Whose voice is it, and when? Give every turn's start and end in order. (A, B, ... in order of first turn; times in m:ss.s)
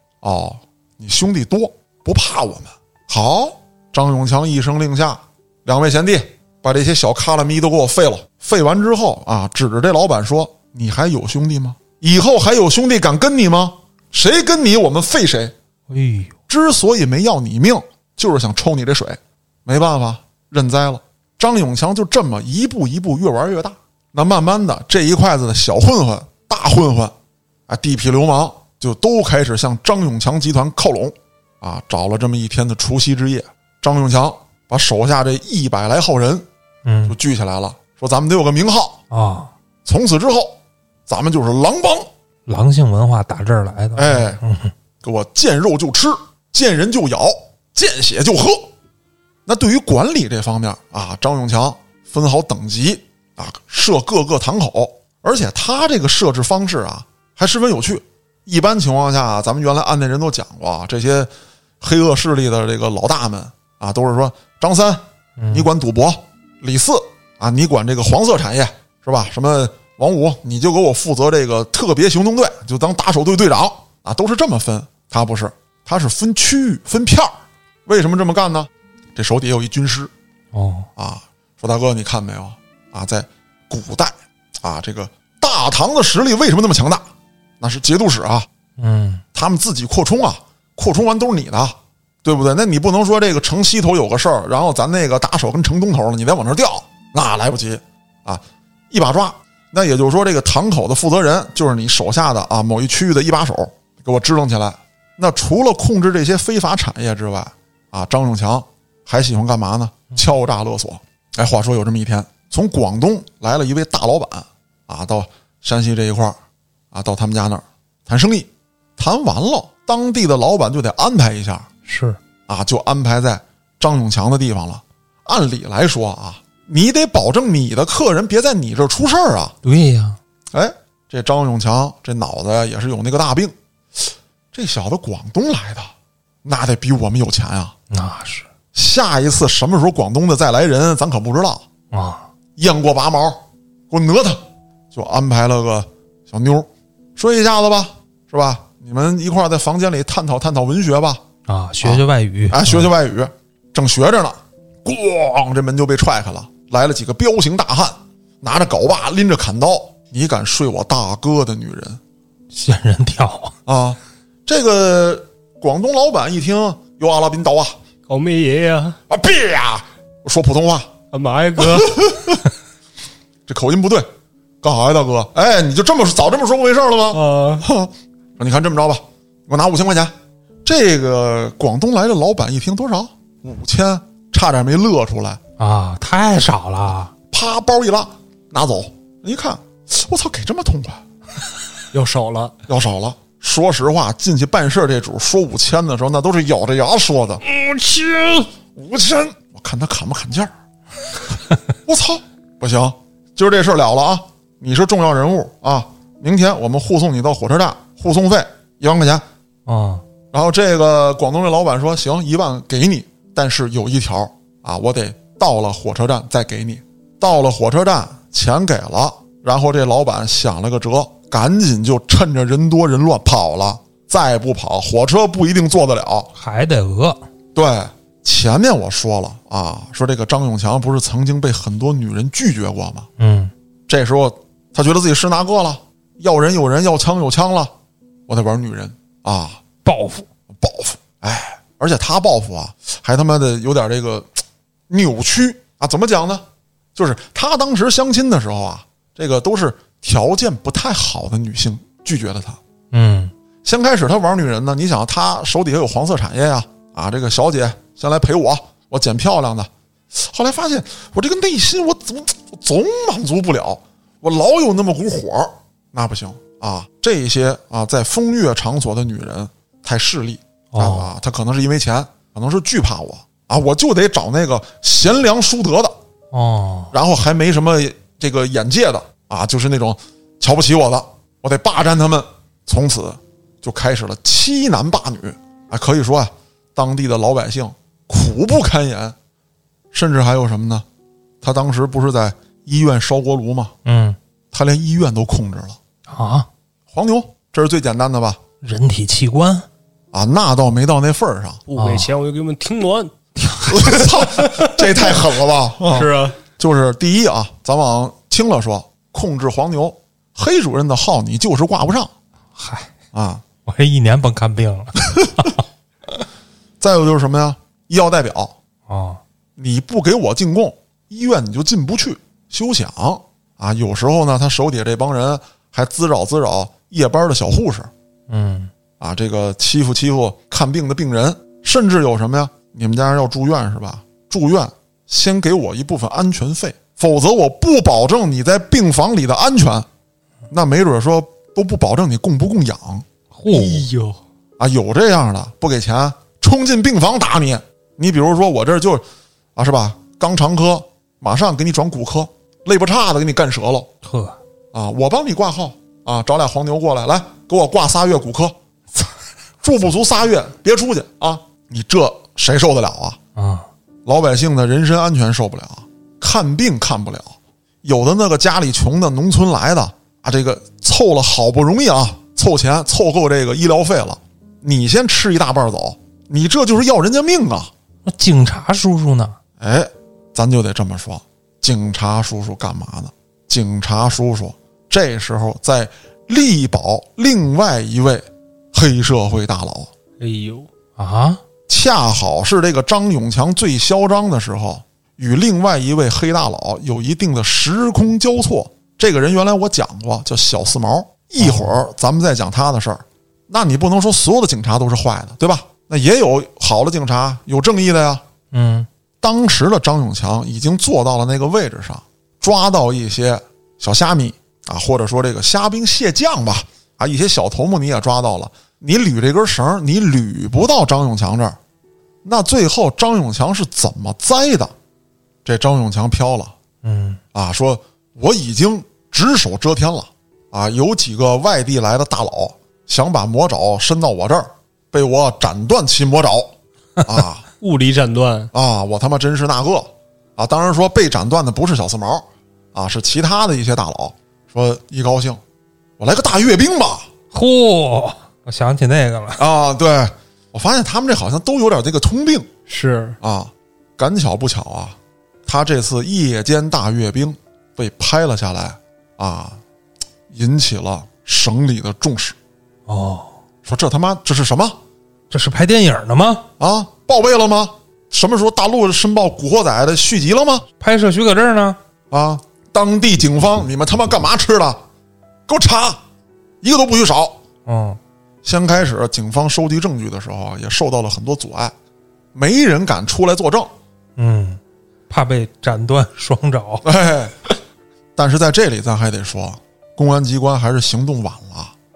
0:00.2-0:15.5 A
0:15.9-0:16.3 B
0:16.5-0:27.1 A
0:27.7-0:36.5 A
0:36.8-0:37.2 B
0:37.1-0:39.0 A
0:39.1-0:39.5 B
0:39.8-0:42.1 A
0:42.5-0:44.7 B
0:44.0-0:44.4 A
0:45.0-0:48.7 A
0:49.5-1:01.3 A
1:01.8-1:17.3 A
1:05.4-1:05.7 B
1:17.9-1:20.1 A
1:20.5-1:20.9 B
1:21.0-1:27.1 A
1:27.6-1:28.5 A
1:28.8-1:29.2 B
1:29.3-1:56.4 A
1:56.9-2:01.7 A
2:01.8-2:02.2 B
2:02.5-2:09.6 A
2:09.6-2:10.2 B
2:10.5-2:13.5 A
2:14.5-2:15.9 A
2:16.4-2:17.8 A
2:17.9-2:18.5 B
2:18.7-2:21.6 A
2:21.9-2:22.3 B
2:22.6-2:24.4 A
2:24.9-2:31.2 A
2:31.5-2:32.9 B
2:31.8-2:42.0 A
2:42.5-2:43.6 B
2:43.7-2:47.8 A
2:48.1-2:49.0 C
2:49.1-2:50.9 A
2:51.1-2:52.0 C
2:51.6-2:52.5 A
2:53.5-2:54.1 A
2:54.6-3:00.1 A
2:57.1-2:57.6 C
3:00.6-3:05.4 A
3:05.6-3:07.1 B
3:07.3-3:11.0 A
3:11.9-3:12.5 C
3:12.7-3:17.4 A
3:17.5-3:18.5 C
3:18.8-3:20.5 A
3:21.9-3:29.2 A
3:29.7-3:30.0 B
3:30.3-3:46.3 A
3:46.4-3:47.2 B
3:47.6-3:53.1 A
3:53.2-3:53.5 B
3:53.9-3:57.7 A
3:58.3-3:59.6 A
3:59.8-4:00.3 B
4:00.6-4:06.4 A
4:07.0-4:12.6 A
4:12.9-4:13.3 B
4:13.6-4:35.9 A
4:30.7-4:31.1 B
4:36.3-4:36.9 B
4:36.9-4:49.2 A
4:49.9-4:50.8 A
4:51.4-4:53.8 A
4:53.8-4:54.2 B
4:54.5-4:55.8 A
4:56.1-4:56.5 B
4:56.9-4:58.4 A
4:58.6-4:59.7 B
5:00.1-5:01.6 A
5:01.7-5:03.1 C
5:01.7-5:02.1 B
5:03.4-5:04.0 B
5:03.6-5:12.1 A
5:03.8-5:05.2 C
5:05.9-5:06.4 C
5:12.6-5:12.9 B
5:13.1-5:13.4 A
5:13.7-5:15.6 B
5:16.8-5:18.5 A
5:18.9-5:19.2 B
5:19.6-5:27.9 A
5:28.3-5:28.7 B
5:29.0-5:39.9 A
5:40.5-5:43.0 A
5:43.3-5:43.9 B
5:43.5-5:44.2 C
5:44.6-5:49.0 A
5:49.6-5:53.9 A
5:54.0-5:54.4 B
5:54.7-5:58.6 A
5:59.6-6:03.2 A
6:03.4-6:03.7 B
6:04.1-6:17.7 A
6:18.1-6:19.4 B
6:19.6-6:29.9 A
6:30.2-6:30.7 C
6:31.0-6:31.4 B
6:31.7-6:48.2 A
6:41.4-6:41.8 B
6:48.5-6:48.9 B
6:49.2-7:01.6 A
7:02.2-7:04.7 A
7:05.4-7:06.5 A
7:06.8-7:07.2 B
7:07.3-7:17.4 A
7:17.6-7:18.5 C
7:18.5-7:25.4 A
7:26.0-7:27.1 A
7:27.3-7:29.4 B
7:29.4-7:32.5 A
7:32.7-7:33.2 C
7:33.2-7:39.6 A
7:40.3-7:42.4 A
7:42.9-7:43.4 B
7:43.6-7:44.8 A
7:45.3-7:46.4 B
7:46.6-7:50.7 A
7:50.8-7:51.8 B
7:52.1-7:54.8 A
7:55.5-7:56.0 A
7:56.6-7:57.4 A
7:57.7-7:58.0 B
7:58.4-8:01.7 A
8:02.3-8:03.7 A
8:04.2-8:06.8 B
8:06.8-8:07.3 A
8:08.2-8:11.7 A